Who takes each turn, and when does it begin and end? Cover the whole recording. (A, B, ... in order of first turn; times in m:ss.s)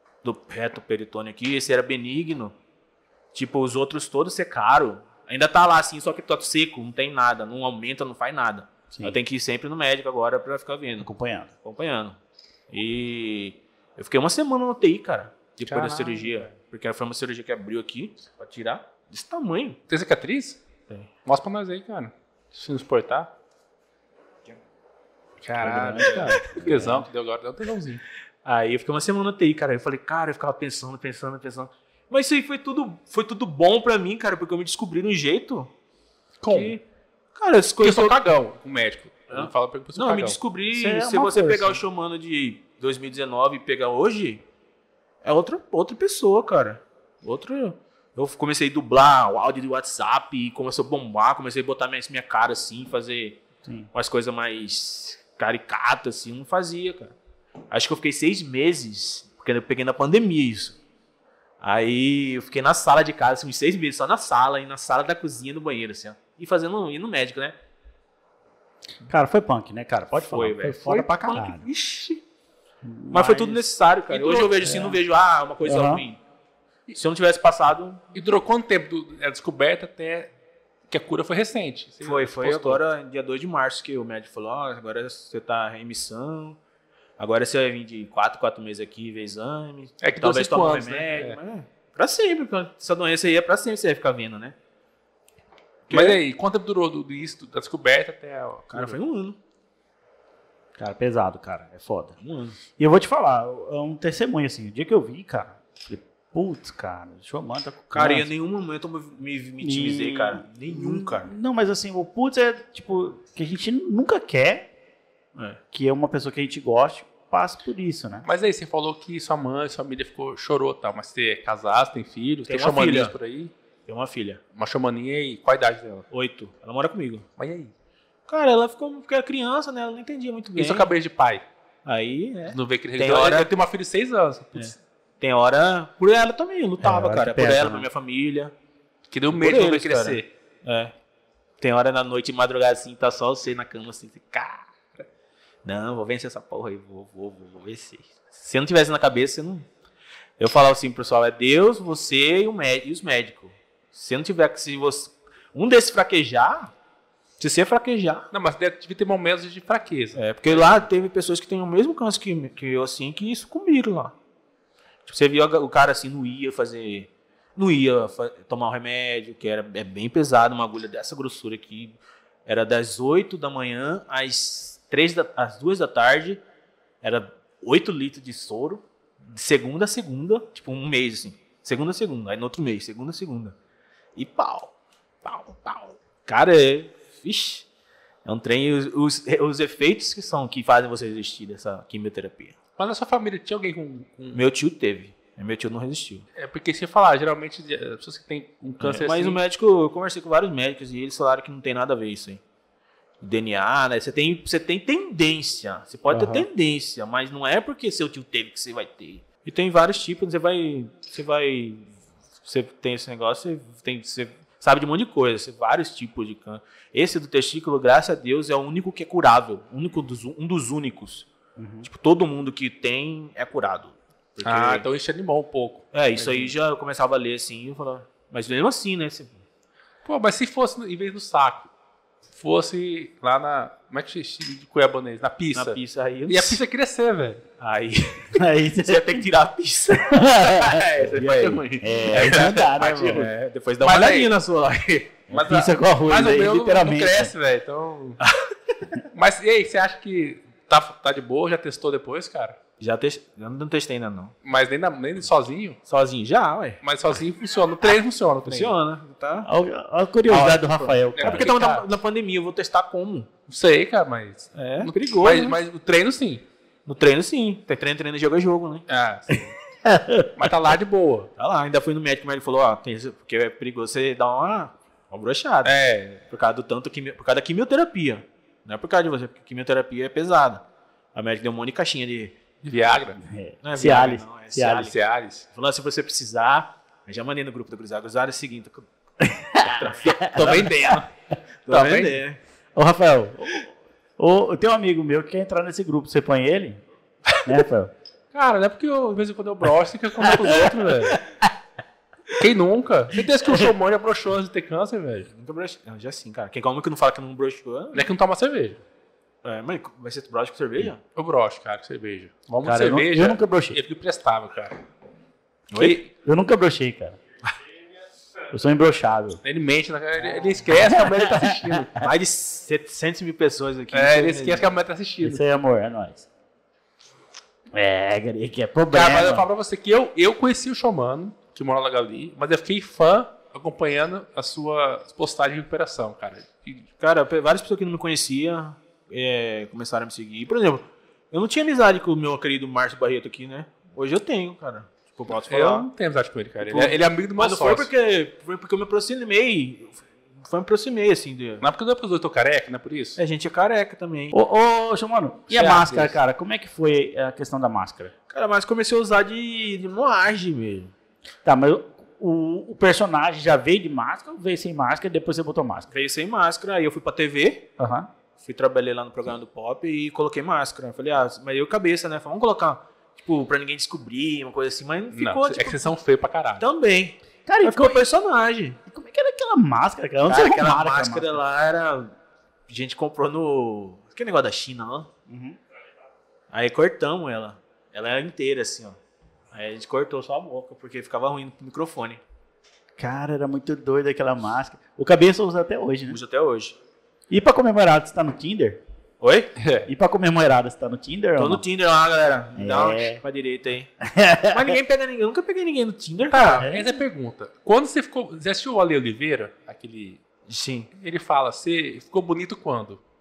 0:00.2-0:02.6 A
0:03.3-0:11.1 A
0:08.9-0:09.2 B
0:11.0-0:11.5 B
0:11.6-0:12.2 A
0:12.7-0:19.8 A
0:15.7-0:16.5 C
0:19.9-0:20.6 C
0:21.2-0:23.3 C
0:25.4-0:28.0 C
0:25.6-0:27.1 B
0:26.0-0:26.8 A
0:28.4-0:35.7 A
0:36.4-0:36.8 C
0:36.5-0:36.8 A
0:37.4-0:38.2 A
0:37.8-0:40.4 C
0:39.3-0:44.4 A
0:40.7-0:41.8 B
0:45.2-0:53.4 A
0:53.6-0:53.9 B
0:53.9-0:57.2 A
0:57.7-1:00.8 A
1:01.6-1:07.6 A
1:09.1-1:11.7 B
1:10.3-1:12.2 A
1:12.8-1:13.6 B
1:13.1-1:16.2 A
1:14.1-1:14.8 C
1:14.6-1:15.0 B
1:15.6-1:16.0 B
1:16.9-1:18.0 A
1:18.2-1:20.3 C
1:20.9-1:22.8 C
1:22.0-1:26.6 A
1:27.2-1:34.6 A
1:30.0-1:31.4 C
1:35.9-1:36.2 A
1:35.9-1:39.0 C
1:38.7-1:39.4 A
1:40.8-1:42.1 B
1:42.2-1:42.6 A
1:42.8-1:48.3 B
1:47.9-1:51.3 A
1:49.6-1:54.7 B
1:55.7-1:58.3 B
1:58.2-2:03.5 C
2:02.5-2:03.1 A
2:03.9-2:04.4 A
2:04.6-2:06.1 C
2:06.1-2:07.2 A
2:07.4-2:07.7 C
2:08.3-2:10.9 A
2:10.6-2:11.4 C
2:11.8-2:13.5 A
2:12.5-2:14.8 C
2:14.6-2:18.5 A
2:16.8-2:17.9 B
2:19.1-2:20.3 C
2:19.3-2:20.9 A
2:21.6-2:25.0 A
2:25.6-2:29.7 A
2:30.4-2:36.7 A
2:37.4-2:38.3 A
2:38.3-2:40.8 C
2:40.2-2:44.2 A
2:45.1-2:56.4 A
2:57.0-3:03.6 A
3:04.2-3:04.7 A
3:05.2-3:07.7 A
3:08.3-3:12.6 A
3:12.8-3:14.4 C
3:14.3-3:16.3 A
3:16.4-3:19.4 C
3:18.8-3:22.4 A
3:23.2-3:41.3 A
3:26.1-3:26.4 B
3:41.6-3:41.9 B
3:41.8-3:44.9 A
3:44.4-3:46.5 C
3:45.9-3:49.4 A
3:50.0-3:51.7 C
3:52.4-3:57.4 C
3:55.5-3:56.6 A
3:57.6-4:00.3 A
3:58.3-3:59.3 B
4:00.0-4:03.3 B
4:00.5-4:03.2 C
4:01.0-4:05.2 A
4:03.8-4:04.3 C
4:05.3-4:07.3 B
4:05.3-4:08.2 C
4:08.2-4:08.5 A
4:09.1-4:12.6 C
4:12.8-4:14.3 A
4:14.4-4:15.8 C
4:15.9-4:16.8 A
4:16.8-4:18.7 C
4:18.4-4:19.5 A
4:19.4-4:21.5 B
4:20.3-4:23.3 A
4:21.2-4:21.8 C
4:23.5-4:26.4 C
4:24.6-4:25.6 A
4:26.9-4:28.9 A
4:28.9-4:29.6 C
4:29.8-4:30.3 B
4:30.4-4:31.3 C
4:31.4-4:40.6 A
4:35.6-4:36.2 C
4:41.2-4:42.4 A
4:42.6-4:43.2 C
4:43.2-4:44.9 B
4:43.6-4:45.0 A
4:44.7-4:45.5 C
4:45.5-4:48.9 A
4:49.2-4:51.0 B
4:49.6-4:50.6 A
4:50.2-4:51.1 C
4:51.7-4:52.4 A
4:51.7-4:52.2 C
4:52.8-4:56.8 B
4:57.4-4:57.9 B
4:58.3-5:01.2 C
5:00.2-5:01.5 B
5:02.4-5:05.3 C
5:05.3-5:08.1 A
5:07.9-5:08.8 C
5:09.4-5:11.0 A
5:11.2-5:14.8 C
5:12.6-5:13.8 B
5:15.7-5:16.0 A
5:15.8-5:16.1 C
5:16.2-5:17.2 B
5:18.5-5:19.4 B
5:19.4-5:22.0 C
5:20.8-5:22.0 B
5:22.0-5:24.7 A
5:23.9-5:25.4 C
5:25.2-5:26.3 B
5:27.7-5:29.5 B
5:28.9-5:36.9 C
5:37.0-5:45.9 A
5:45.5-5:47.9 C
5:46.6-5:51.6 A
5:51.6-5:53.2 C
5:53.2-5:54.4 A
5:54.3-5:58.1 B
5:55.5-5:56.2 C
5:58.3-6:00.9 A
6:01.4-6:05.9 B
6:05.9-6:07.7 A
6:07.8-6:08.1 B
6:08.4-6:15.9 A
6:15.1-6:16.7 C
6:16.6-6:18.8 A
6:17.5-6:18.1 B
6:18.9-6:21.4 B
6:20.3-6:22.2 A
6:22.7-6:25.1 A
6:25.3-6:25.6 B
6:26.5-6:29.0 A
6:29.5-6:32.2 A
6:33.0-6:36.2 B
6:36.1-6:36.8 A
6:37.3-6:38.8 B
6:39.2-6:39.5 A
6:39.6-6:39.9 C
6:39.9-6:41.6 B
6:41.4-6:43.9 A
6:42.6-6:43.2 B
6:44.0-6:44.8 B
6:44.5-6:46.7 A
6:46.3-6:50.2 C
6:46.5-6:47.0 B
6:50.5-6:50.9 A
6:51.0-6:53.0 C